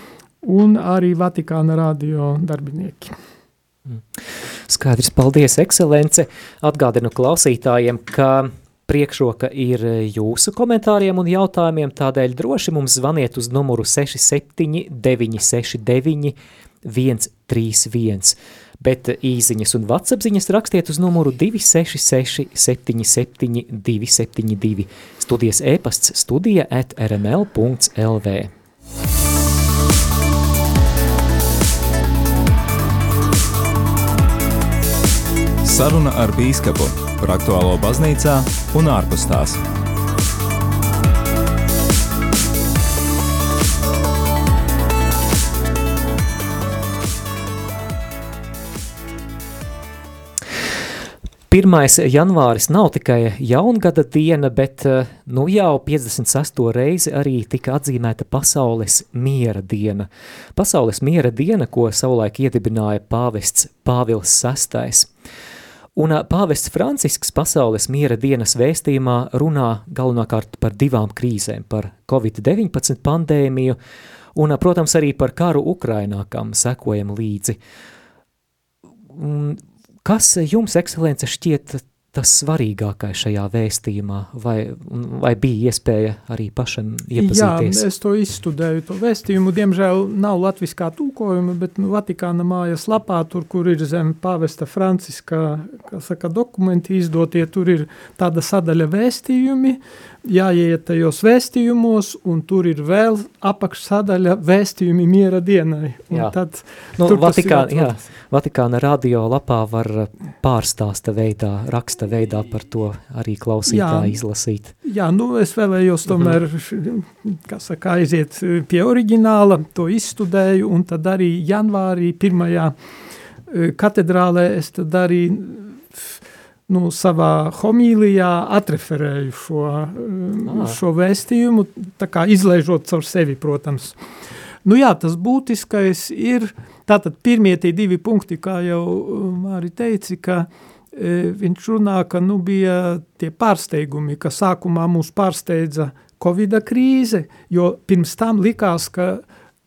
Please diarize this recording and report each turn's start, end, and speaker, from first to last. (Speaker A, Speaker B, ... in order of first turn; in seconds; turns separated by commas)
Speaker A: 0.4-3.1, Speaker B: 4.7-28.5, Speaker C: 35.6-39.6, Speaker B: 51.5-65.1, Speaker B: 65.9-73.8, Speaker B: 74.3-77.6, Speaker B: 79.1-87.8, Speaker A: 87.1-108.1, Speaker B: 107.0-114.7, Speaker A: 113.7-114.2, Speaker A: 114.8-122.7, Speaker A: 123.5-126.1, Speaker A: 126.7-133.9, Speaker B: 130.5-130.8, Speaker A: 134.6-149.2